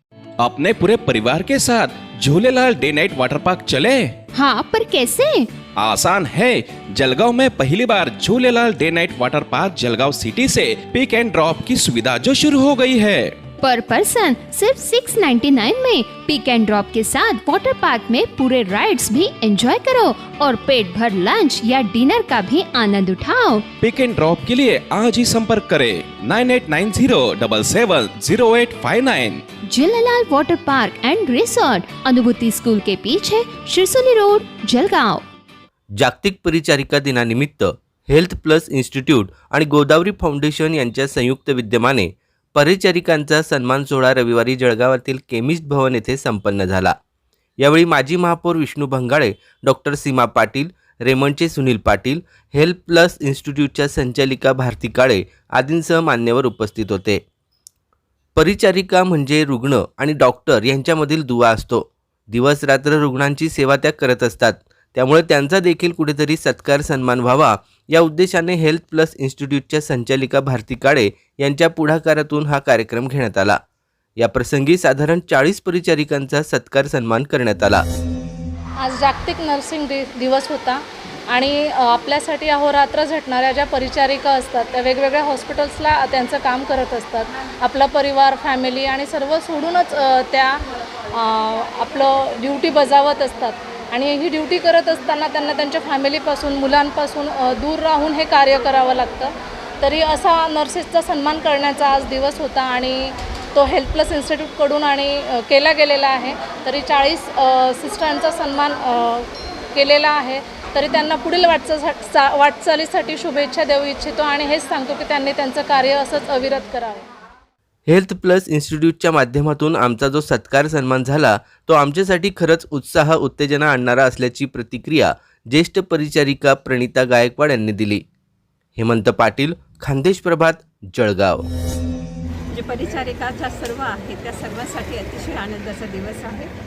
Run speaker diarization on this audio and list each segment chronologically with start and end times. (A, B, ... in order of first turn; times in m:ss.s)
0:00.4-0:04.2 A
0:04.3-0:05.5 B
0:05.8-0:13.4 A
0:13.6-0:23.6 B
0:23.8-0:29.4 A
0:29.6-0:35.2 B
0:36.0-0:46.9 C
0:47.6-0:57.2 C
0:58.4-1:13.6 C
1:14.2-1:17.8 C
1:18.8-1:30.6 D
1:31.1-1:57.1 D
1:57.9-2:08.0 C
2:08.8-2:11.4 C
2:12.5-2:16.5 E